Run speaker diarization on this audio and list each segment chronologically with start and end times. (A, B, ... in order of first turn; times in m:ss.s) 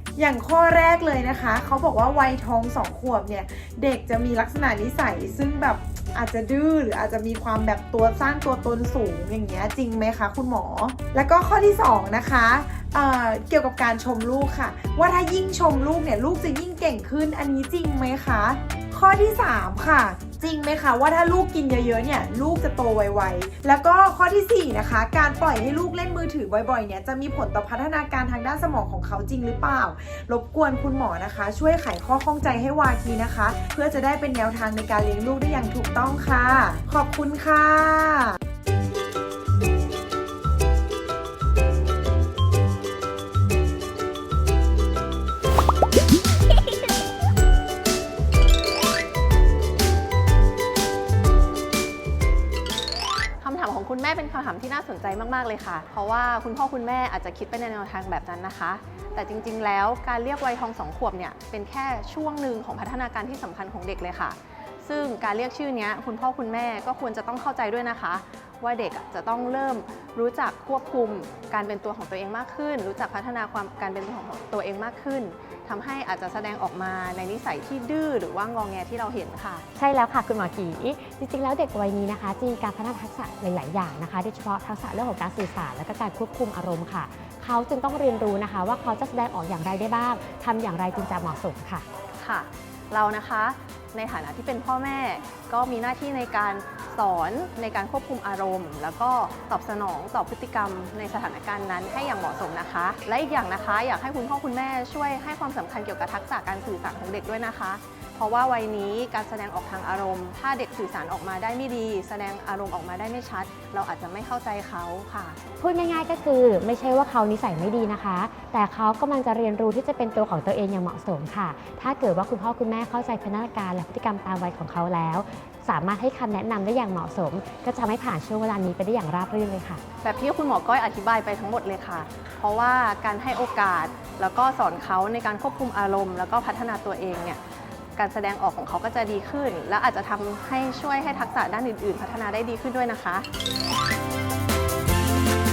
0:00.2-0:38.4 A
0:53.4-1:19.6 B
1:19.8-1:31.8 C
1:32.2-1:55.4 B
1:55.6-2:09.8 C
2:10.0-2:17.4 B
2:18.0-2:23.2 B